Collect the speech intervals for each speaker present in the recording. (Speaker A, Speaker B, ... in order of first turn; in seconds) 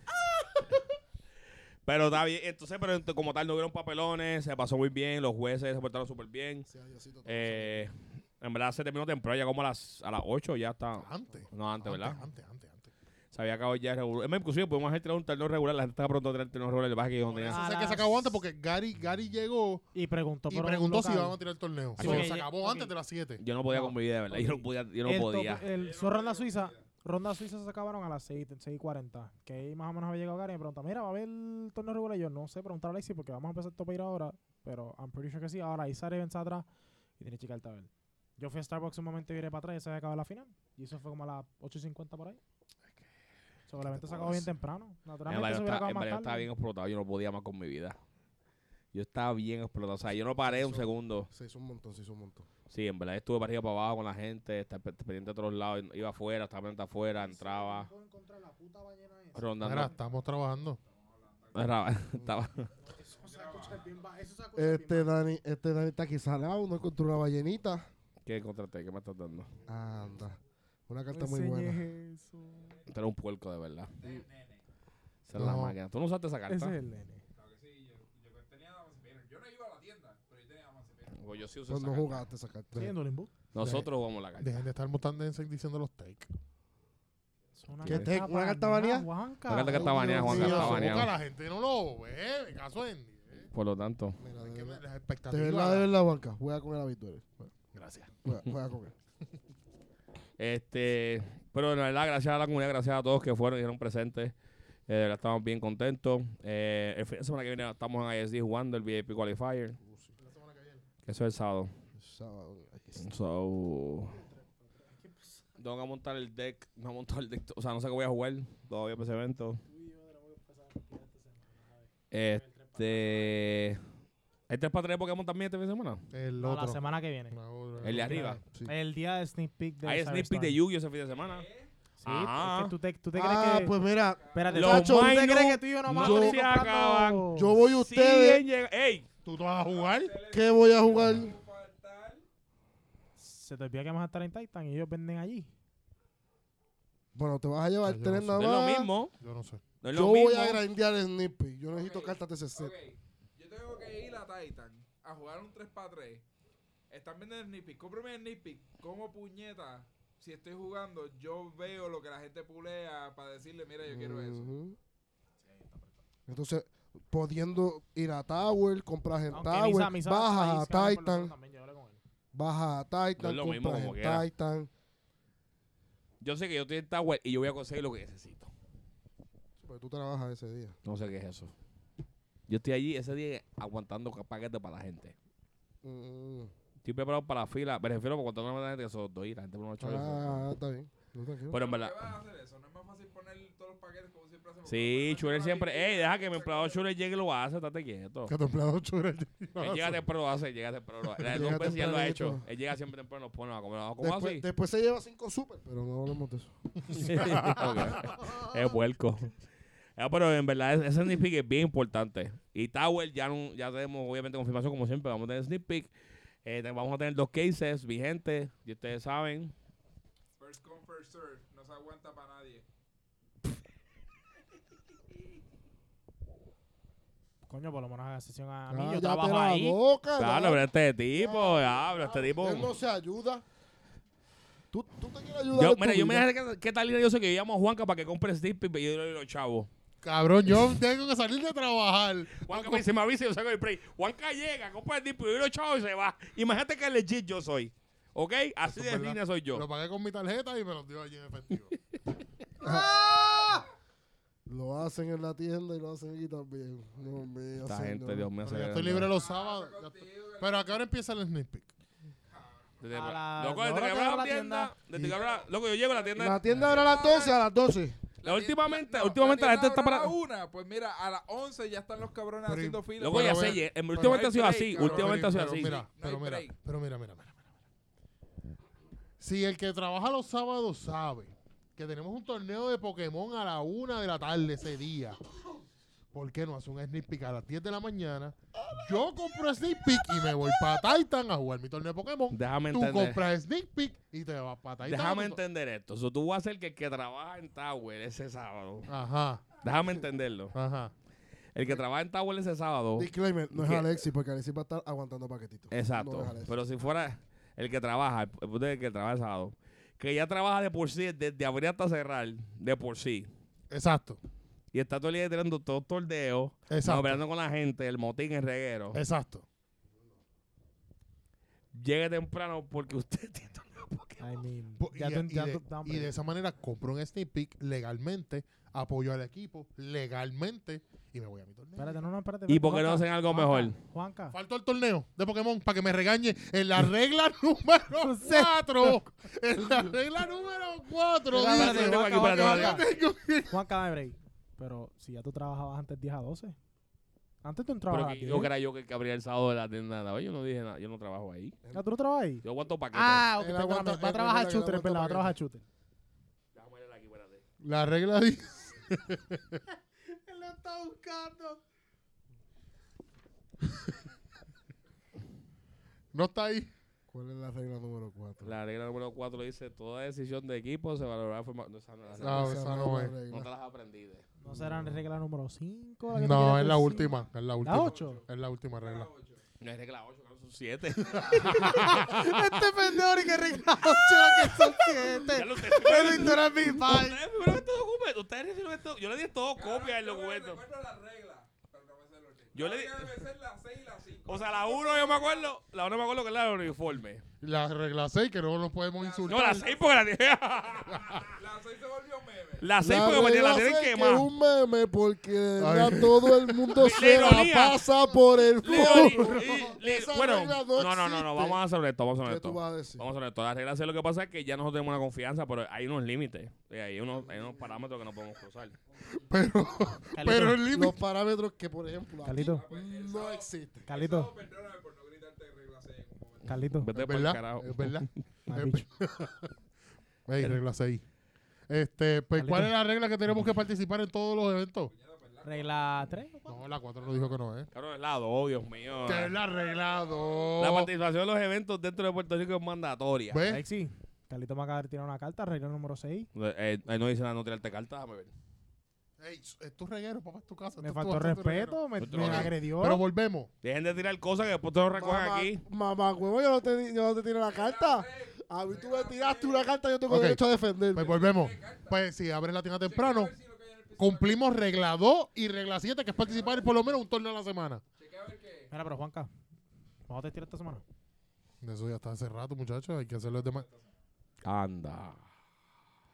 Speaker A: 1.8-6.7, 7.2-12.2, 13.3-17.6, 22.0-22.4, 23.4-25.7, 45.2-48.0, 48.9-51.3, 52.7-57.9, 59.3-59.9, 61.5-62.7, 68.2-69.5, 72.9-73.9, 75.2-76.8, 81.1-82.2, 83.5-84.6, 87.8-88.1, 89.5-91.1, 93.5-94.2, 100.4-104.3, 104.9-109.8, 111.0-111.7, 113.0-114.2, 115.6-119.6, 122.1-123.8, 124.5-126.0, 127.8-128.4, 129.8-131.4, 132.0-132.7, 134.5-139.1, 148.3-149.1, 149.8-150.6, 173.2-174.3, 176.2-178.5, 180.8-181.5, 182.5-185.1, 186.8-190.4, 191.5-192.0, 194.7-198.3, 199.6-204.4, 207.0-209.3, 210.0-215.9, 216.4-219.5, 230.2-232.7, 235.5-239.7, 242.3-249.6, 257.6-259.1, 262.8-266.6, 268.2-270.1, 273.0-275.8, 292.3-293.2, 294.8-298.9, 299.5-300.5, 301.5-303.9, 305.7-313.3, 314.7-319.0, 321.7-324.2, 332.5-333.8, 341.5-342.9, 347.9-351.6, 352.4-353.3, 356.5-357.4, 368.4-374.2, 379.6-382.2, 383.6-390.6, 392.5-393.1, 394.2-397.2, 399.3-401.4, 402.6-404.3, 406.7-407.8, 408.6-418.8, 426.8-428.2, 437.7-439.3, 440.6-443.5, 446.3-448.3, 452.0-452.5, 453.6-455.6, 474.4-475.2
Speaker B: 6.7-7.9, 50.5-52.5, 64.5-67.9, 69.6-71.9, 81.7-82.9, 87.8-89.1, 89.7-91.0, 94.2-97.2, 98.2-98.9, 109.8-110.1, 112.0-113.1, 133.1-135.3, 135.8-136.4, 137.3-138.4, 140.3-141.3, 147.1-148.9, 149.9-152.7, 163.9-164.8, 166.3-171.3, 172.3-174.7, 179.6-180.8, 185.8-186.5, 189.8-191.6, 201.2-202.4, 204.0-207.9, 228.7-230.6, 231.1-233.4, 234.7-236.3, 252.6-253.1, 254.4-258.3, 266.1-268.0, 302.9-306.5, 353.4-355.3, 367.1-368.5, 372.2-373.5, 402.8-411.6, 412.2-413.1, 420.7-423.9, 454.9-461.2
Speaker C: 11.0-12.9, 17.4-19.9, 20.5-23.4, 59.6-60.8, 75.3-75.8, 83.6-86.3, 90.0-93.5, 94.3-95.9, 97.4-98.2, 110.2-110.8, 126.1-128.3, 139.2-140.2, 147.8-148.4, 149.2-149.6, 198.3-200.0, 206.9-208.7, 240.0-242.9, 248.6-251.8, 258.4-261.7, 264.9-265.2, 266.5-266.9, 272.4-277.4, 279.2-285.2, 286.1-295.4, 298.9-299.6, 300.5-300.9, 313.7-314.2, 316.7-317.2, 318.9-319.4, 324.8-332.0, 334.3-343.6, 357.6-359.6, 366.1-366.7, 372.2-373.1, 376.1-379.1, 381.1-382.1, 397.4-399.7, 400.9-401.2, 405.6-406.9, 408.6-409.8, 419.2-421.0, 426.9-429.5, 430.2-431.0, 431.7-434.9, 436.5-437.7, 439.0-440.9, 443.3-443.6, 449.2-453.5, 460.1-460.4, 460.9-463.3, 464.0-467.8, 471.6-473.6
Speaker D: 17.5-18.4, 19.9-21.4, 22.0-22.9, 23.6-36.7, 37.2-42.4, 43.7-46.5, 57.0-60.0, 62.8-65.1, 71.1-72.8, 76.5-77.2, 82.8-83.3, 87.6-90.2, 114.1-115.6, 119.7-123.7, 126.4-130.6, 132.0-133.8, 134.3-137.5, 143.2-145.5, 169.3-172.0, 227.5-229.8, 252.6-253.7, 262.9-264.7, 324.2-326.1, 331.8-334.4, 338.0-339.0, 341.3-342.8, 343.5-346.6, 347.4-348.5, 351.7-355.6, 360.0-361.6, 374.4-378.2, 381.3-387.2, 420.1-420.6, 422.2-422.6, 423.9-424.3, 426.4-426.9, 428.5-428.9, 432.4-432.7, 435.4-436.7, 443.5-446.3, 450.8-453.0, 468.7-469.3, 470.1-470.8
Speaker E: 25.7-26.9, 60.7-62.0, 63.2-63.9, 73.9-74.6, 77.3-81.4, 131.1-131.7, 133.9-134.7, 139.5-142.2, 151.7-156.2, 156.9-164.5, 191.5-196.8, 220.4-222.6, 258.9-260.8, 262.3-262.7, 265.0-267.4, 268.2-276.5, 376.9-379.4, 389.5-395.5, 398.9-399.8, 401.3-402.7, 422.4-426.7, 434.9-436.0, 437.0-437.4, 439.4-440.3, 457.4-459.7, 460.9-462.1, 462.8-464.5, 466.2-466.7, 468.0-468.7, 473.5-473.9